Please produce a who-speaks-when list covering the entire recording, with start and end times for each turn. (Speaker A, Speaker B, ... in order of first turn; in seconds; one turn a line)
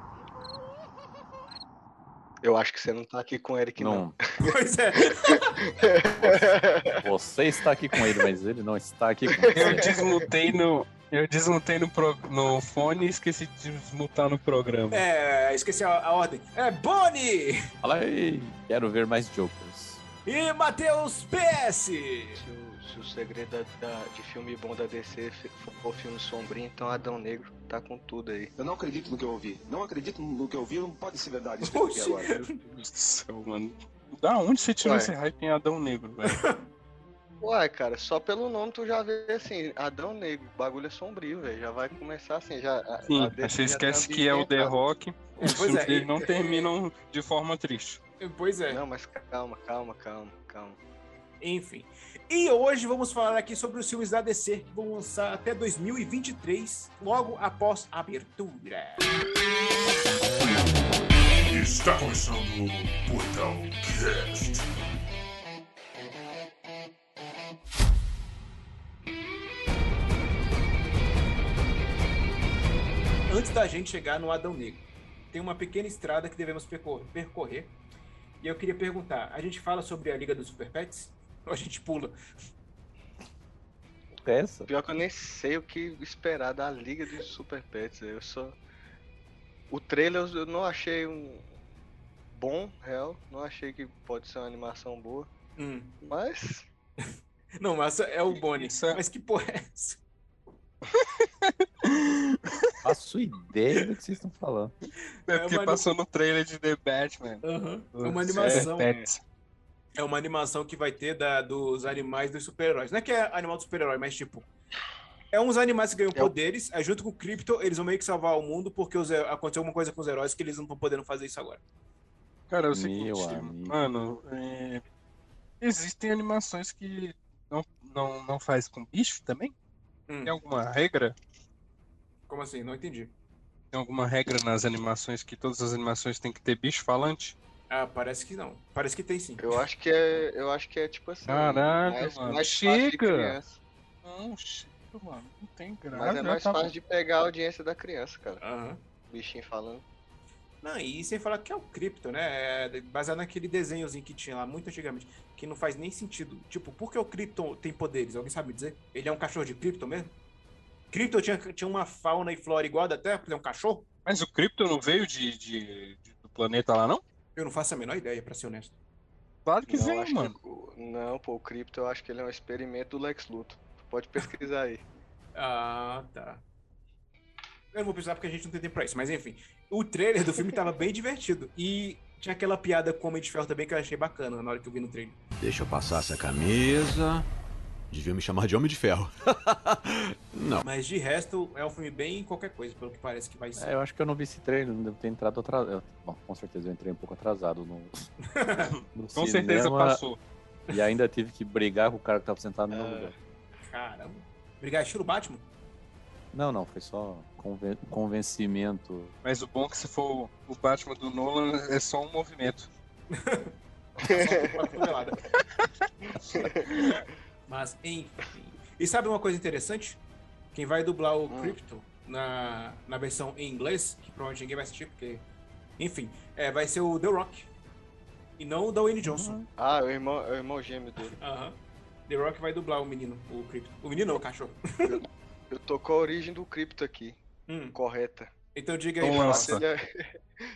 Speaker A: 2.4-4.2
Speaker B: 3.8-4.2
Speaker C: 4.4-5.5
Speaker A: 5.3-6.9
Speaker B: 6.8-9.9
Speaker A: 9.4-9.9
Speaker D: 9.6-15.0
Speaker C: 14.9-17.6
Speaker B: 17.8-20.0
Speaker C: 20.3-22.4
Speaker A: 22.4-28.5
Speaker E: 28.6-32.4
Speaker C: 31.6-32.5
Speaker D: 32.4-36.4
Speaker A: 34.8-35.1
Speaker C: 36.3-36.6
Speaker A: 37.4-44.8
Speaker D: 43.1-48.0
Speaker C: 45.4-46.6
Speaker C: 48.2-48.8
Speaker A: 48.7-50.8
Speaker C: 51.4-59.1
Speaker F: 61.5-64.7
Speaker C: 73.3-77.8
Speaker C: 78.4-82.2
Speaker B: 84.2-84.7
Speaker A: 84.7-88.6
Speaker A: 89.7-91.5
Speaker A: 92.3-95.3
Speaker C: 95.6-96.0
Speaker A: 96.0-96.7
Speaker C: 97.6-100.0
Speaker D: 98.3-99.0
Speaker D: 100.9-102.6
Speaker B: 102.8-104.7
Speaker D: 105.3-109.2
Speaker C: 105.3-105.9
Speaker C: 107.4-109.0
Speaker C: 110.0-114.5
Speaker C: 115.3-121.6
Speaker D: 122.5-124.8
Speaker B: 122.7-123.9
Speaker D: 125.6-129.6
Speaker C: 130.1-130.4
Speaker D: 130.2-131.2
Speaker C: 132.3-133.1
Speaker D: 133.7-137.4
Speaker C: 137.7-139.4
Speaker A: 139.4-143.6
Speaker D: 141.3-143.4
Speaker D: 144.0-146.7
Speaker A: 145.9-148.4
Speaker C: 148.4-148.8
Speaker A: 149.1-149.8
Speaker C: 150.6-160.1
Speaker C: 160.9-163.9
Speaker D: 164.1-167.0
Speaker C: 167.4-168.7
Speaker D: 169.4-170.4
Speaker A: 169.7-174.8
Speaker C: 175.3-176.4
Speaker C: 177.7-185.2
Speaker G: 185.4-187.3
Speaker G: 187.9-190.7
Speaker C: 190.6-193.7
Speaker B: 193.6-198.1
Speaker C: 198.4-198.7
Speaker B: 198.9-200.0
Speaker D: 199.1-200.2
Speaker B: 200.7-203.2
Speaker A: 202.7-203.1
Speaker C: 203.6-205.5
Speaker B: 206.3-209.1
Speaker D: 209.2-212.7
Speaker C: 213.1-215.2
Speaker A: 214.1-214.6
Speaker B: 216.2-216.7
Speaker C: 217.5-220.0
Speaker C: 220.5-225.2
Speaker A: 221.3-221.6
Speaker C: 225.8-227.5
Speaker C: 228.4-229.4
Speaker B: 229.0-229.5
Speaker A: 229.6-231.2
Speaker C: 231.2-234.9
Speaker A: 234.8-237.2
Speaker C: 237.5-237.8
Speaker A: 237.7-238.3
Speaker C: 238.6-239.6
Speaker D: 239.0-239.6
Speaker A: 239.0-240.0